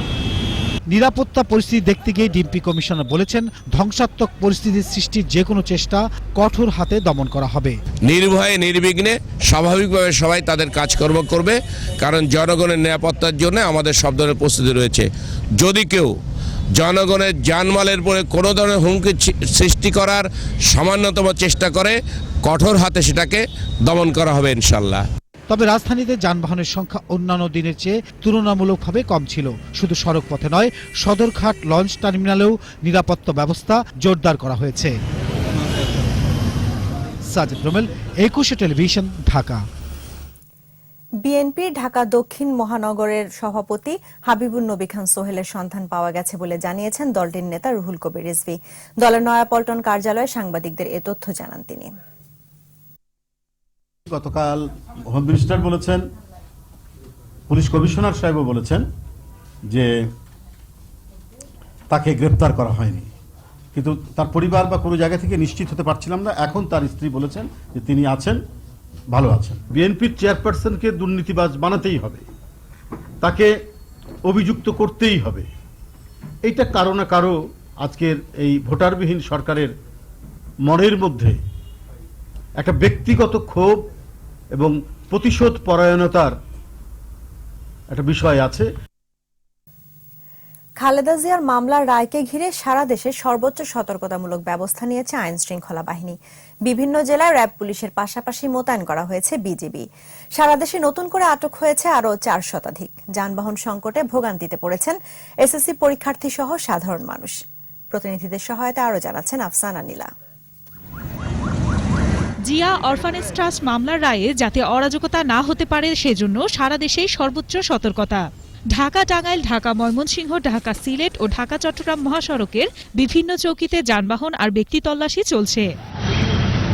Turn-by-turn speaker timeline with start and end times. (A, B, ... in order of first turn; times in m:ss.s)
0:00.9-0:07.8 A
0:08.0-0:16.1 B
0:16.8-0:25.1 B
0:25.5-0:35.0 A
0:37.3-0:39.6 A
0:41.2-0:51.9 C
0:54.1-0:56.0 D
0:57.5-0:58.8 D
1:01.9-1:03.1 D
1:03.8-1:08.4 D
1:09.1-1:12.2 D
1:13.2-1:13.6 D
1:14.2-1:15.5 D
1:16.4-1:19.7 D
1:20.6-1:21.4 D
1:22.6-1:23.9 D
1:24.5-1:26.4 D
1:27.9-1:28.7 D
1:30.8-1:47.4 C
1:47.9-1:50.1 C
1:52.5-2:05.7 E